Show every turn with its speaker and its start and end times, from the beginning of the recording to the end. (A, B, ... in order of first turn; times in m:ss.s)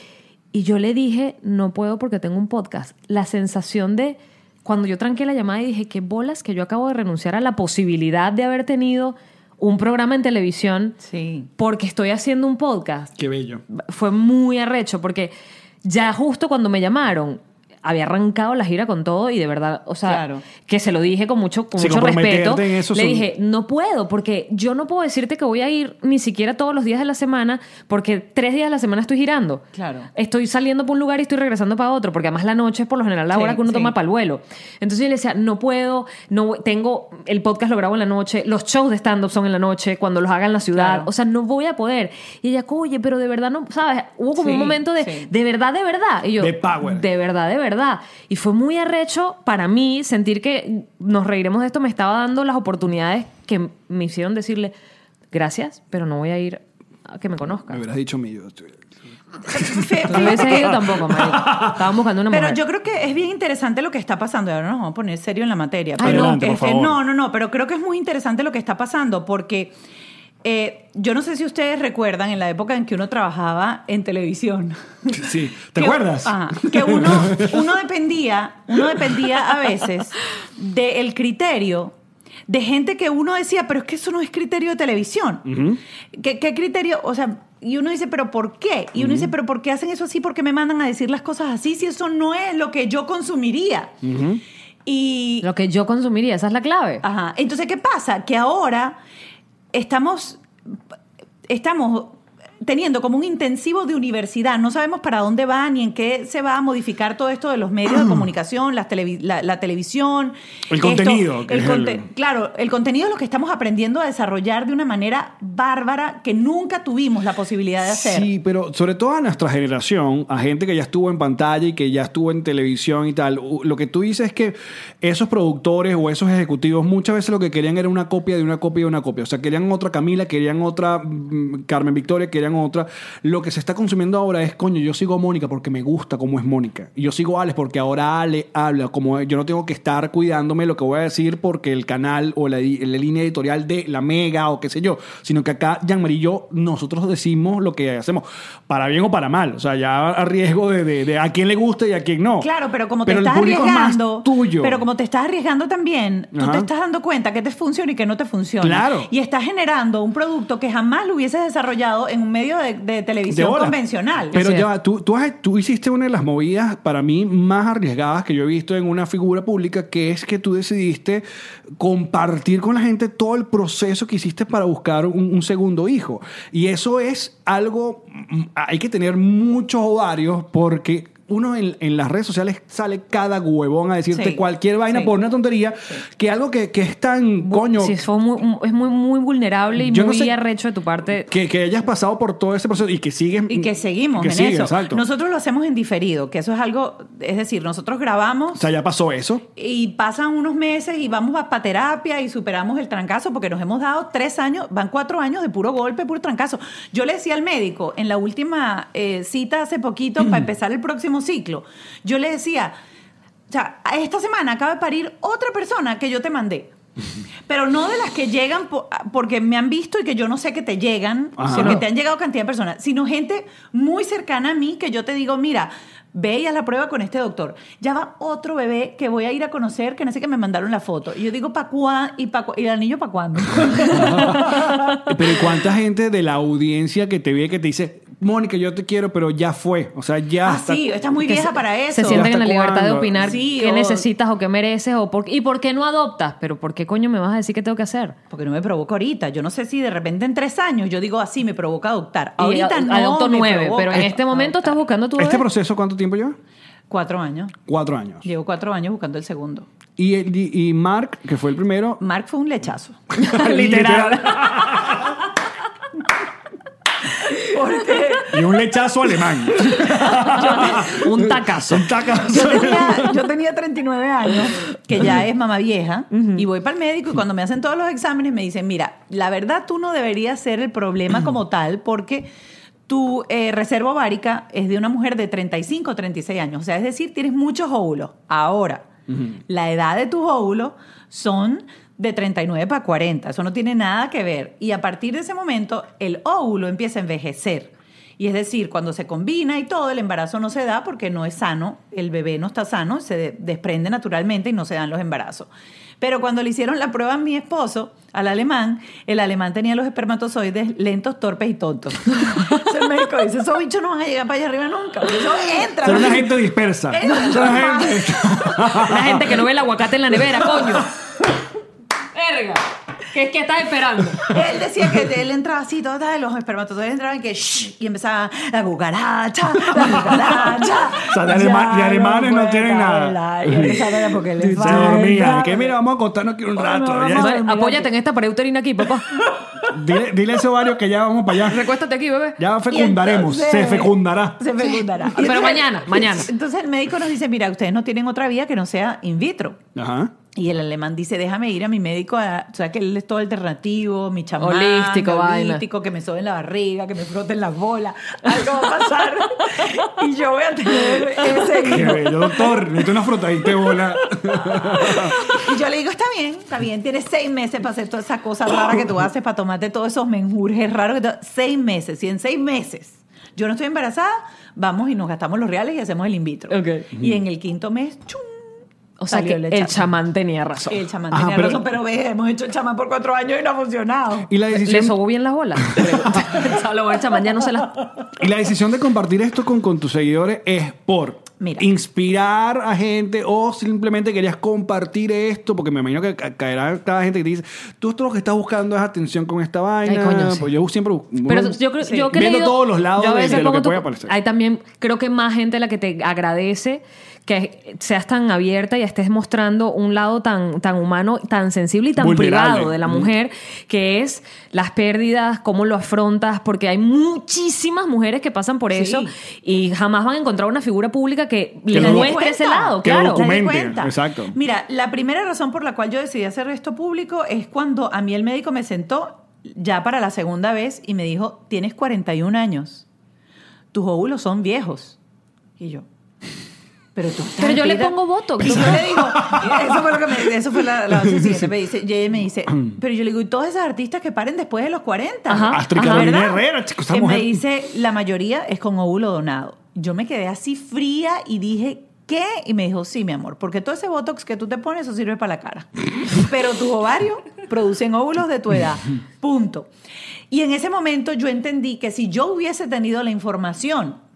0:00.5-0:11.0 A
0:11.0-0:11.5 B
0:11.6-0:13.1 A
0:13.2-0:13.6 C
0:13.7-0:15.3 A
0:15.8-0:54.7 A
0:20.0-0:20.4 B
0:21.8-0:23.2 C
0:29.7-0:30.1 B
0:33.3-0:33.9 B
0:40.7-0:41.1 B
0:44.4-0:45.3 B
0:46.4-0:47.1 C
0:55.3-0:57.8 A
0:57.7-0:58.8 C
0:59.5-1:00.8 B
0:59.5-1:01.9 C
1:00.1-1:02.6 A
1:02.3-1:09.8 B
1:06.0-1:06.4 A
1:06.0-1:07.0 C
1:10.4-1:21.9 B
1:15.1-1:17.6 C
1:22.5-1:25.4 B
1:25.4-1:25.8 C
1:26.1-1:33.9 B
1:29.0-1:29.3 C
1:34.0-1:34.4 C
1:34.8-1:35.5 B
1:35.4-1:37.0 A
1:37.0-1:39.0 B
1:39.7-1:40.4 B
1:41.5-1:58.3 B
1:50.7-1:52.1 C
1:57.8-2:32.5 C
2:32.4-2:44.4 B
2:33.0-2:34.8 C
2:36.3-2:36.7 C
2:38.6-2:39.1 C
2:43.3-2:43.8 C
2:44.3-2:51.2 C
2:44.3-2:44.7 A
2:51.8-3:08.0 C
3:04.1-3:05.1 B
3:07.5-3:11.3 A
3:09.8-3:10.3 C
3:11.2-3:15.0 C
3:13.5-3:18.7 B
3:18.5-3:19.4 C
3:19.6-3:32.7 B
3:33.5-3:36.7 B
3:37.5-3:54.7 B
3:41.4-3:41.8 C
3:41.5-3:41.8 A
3:53.9-4:00.9 C
4:00.4-4:02.3 B
4:01.3-4:08.2 A
4:02.0-4:03.4 C
4:03.2-4:04.0 B
4:08.3-4:14.7 B
4:12.4-4:15.4 A
4:15.2-4:16.4 C
4:16.9-4:17.6 B
4:17.7-4:18.2 C
4:18.2-4:19.7 B
4:20.0-4:22.0 C
4:22.0-4:23.0 B
4:23.1-4:25.1 C
4:23.2-4:25.0 A
4:27.3-4:28.4 B
4:28.3-4:33.2 C
4:30.2-4:30.9 B
4:30.3-4:31.9 A
4:32.3-4:42.3 B
4:36.1-4:36.4 A
4:42.9-4:48.9 B
4:49.1-4:49.4 C
4:49.5-5:05.5 B
5:06.0-5:16.3 B
5:15.8-5:19.4 C
5:16.9-5:18.2 B
5:18.7-5:20.9 A
5:22.1-5:24.3 A
5:24.3-5:35.8 B
5:29.7-5:33.8 C
5:34.4-5:37.4 C
5:34.6-5:35.1 A
5:36.6-5:37.9 B
5:37.1-5:39.1 A
5:39.6-5:41.7 C
5:41.4-5:42.4 A
5:42.4-5:44.8 C
5:42.7-5:49.6 B
5:45.1-5:46.3 A
5:49.7-5:50.1 C
5:50.3-6:02.5 B
5:54.4-5:55.6 A
6:01.6-6:05.3 C
6:04.3-6:18.5 B
6:16.5-6:16.9 A
6:19.0-6:20.8 A
6:19.1-6:19.8 B
6:20.7-6:24.3 B
6:21.1-6:21.6 C
6:24.3-6:25.0 C
6:24.6-6:27.9 A
6:25.6-6:26.3 C
6:28.2-6:44.1 C
6:31.4-6:31.6 B
6:39.8-6:40.5 A
6:41.2-7:03.2 A
6:41.8-6:42.1 B
6:52.0-6:53.1 C
6:58.7-6:59.1 B
7:01.7-7:02.2 C
7:01.7-7:12.8 B
7:02.8-7:04.4 C
7:13.7-7:15.0 B
7:15.6-7:15.8 B
7:16.9-7:39.7 B
7:17.4-7:18.8 A
7:18.4-7:20.2 C
7:20.9-7:21.5 C
7:25.3-7:26.1 A
7:25.5-7:27.4 C
7:40.3-7:44.0 B